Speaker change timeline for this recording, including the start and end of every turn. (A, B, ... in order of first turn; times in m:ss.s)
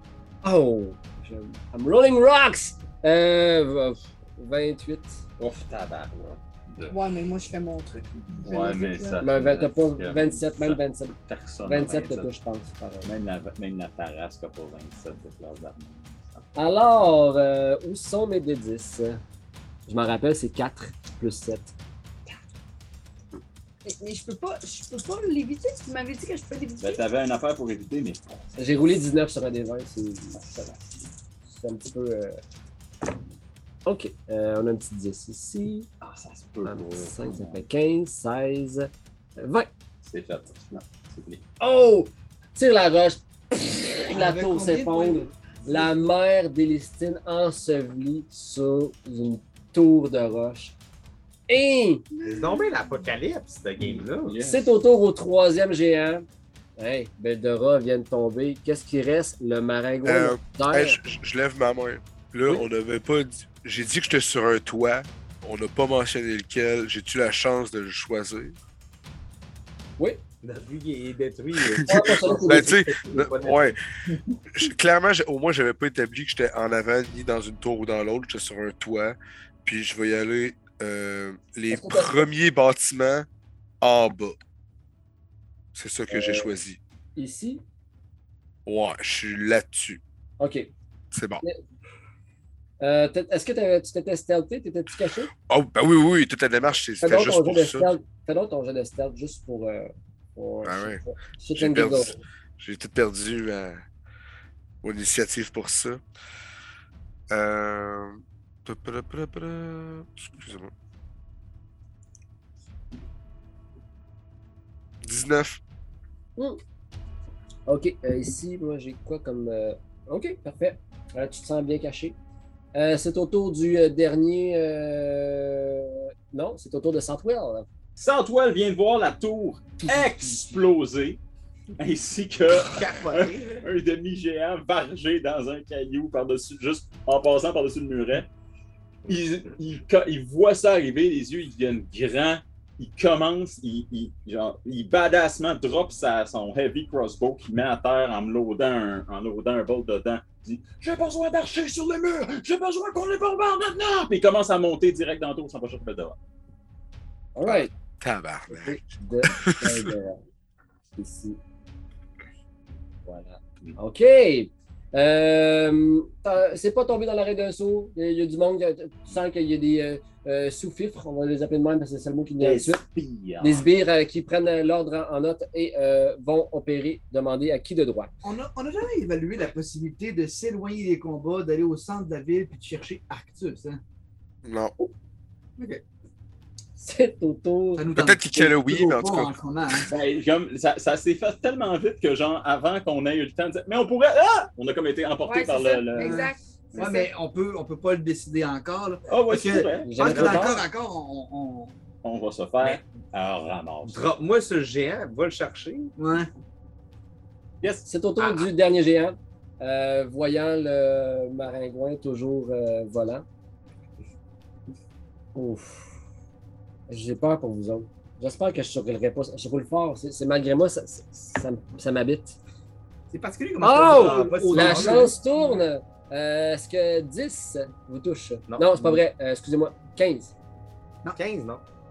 0:00.4-0:05.2 A
0:05.4-0:07.0 B
0:06.9-0:09.2 C
0:08.4-0:12.3 B
0:09.2-0:13.1 A
0:13.0-0:16.5 B
0:16.6-0:19.2 A
0:19.9-0:21.7 A
0:23.8-0:27.0 C
0:26.8-0:28.4 B
0:28.6-0:30.7 A
0:30.4-0:30.8 B
0:31.5-0:32.4 A
0:33.9-0:35.9 A
0:36.0-0:37.6 B
0:36.6-0:39.7 A
0:40.0-0:41.4 B
0:41.6-0:50.8 A
0:44.1-0:45.9 D
0:51.5-0:52.0 A
0:52.2-0:54.4 E
0:53.8-0:54.6 B
0:54.4-0:56.2 A
0:56.8-1:01.0 A
1:00.0-1:08.6 F
1:10.4-1:13.7 E
1:11.7-1:13.8 F
1:11.9-1:12.7 A
1:14.5-1:23.3 F
1:21.7-1:22.3 A
1:23.8-1:24.4 F
1:25.8-1:26.8 F
1:26.1-1:26.5 A
1:27.2-1:27.6 A
1:28.7-1:30.0 F
1:30.4-1:30.7 A
1:31.1-1:31.4 F
1:32.8-1:35.3 A
1:35.5-1:37.9 F
1:37.0-1:42.2 A
1:40.6-1:41.0 F
1:41.5-1:43.8 F
1:44.8-1:46.0 F
1:47.3-1:50.7 F
1:55.0-1:55.6 F
1:57.7-2:02.2 A
2:02.7-2:07.7 A
2:08.0-2:11.2 B
2:11.8-2:18.3 B
2:12.6-2:13.6 E
2:19.1-2:36.2 B
2:37.4-2:37.7 A
2:37.4-2:39.9 F
2:38.5-2:40.2 A
2:41.0-2:41.4 A
2:43.1-2:43.8 B
2:43.8-2:52.8 A
2:52.4-2:53.7 B
2:53.4-2:58.1 A
2:58.2-3:03.8 D
3:04.4-3:04.9 F
3:06.8-3:07.9 A
3:07.8-3:09.9 D
3:07.9-3:09.4 F
3:09.9-3:17.1 B
3:15.2-3:17.1 C
3:16.0-3:21.7 D
3:19.1-3:20.4 B
3:19.8-3:20.6 A
3:22.0-3:24.1 B
3:23.8-3:25.9 E
3:26.0-3:26.3 D
3:27.6-3:28.4 B
3:27.9-3:33.2 A
3:35.4-3:35.9 A
3:36.9-3:42.4 A
3:43.1-3:45.2 D
3:43.6-3:50.3 A
3:43.8-3:45.1 E
3:48.5-3:49.0 E
3:51.2-3:51.6 E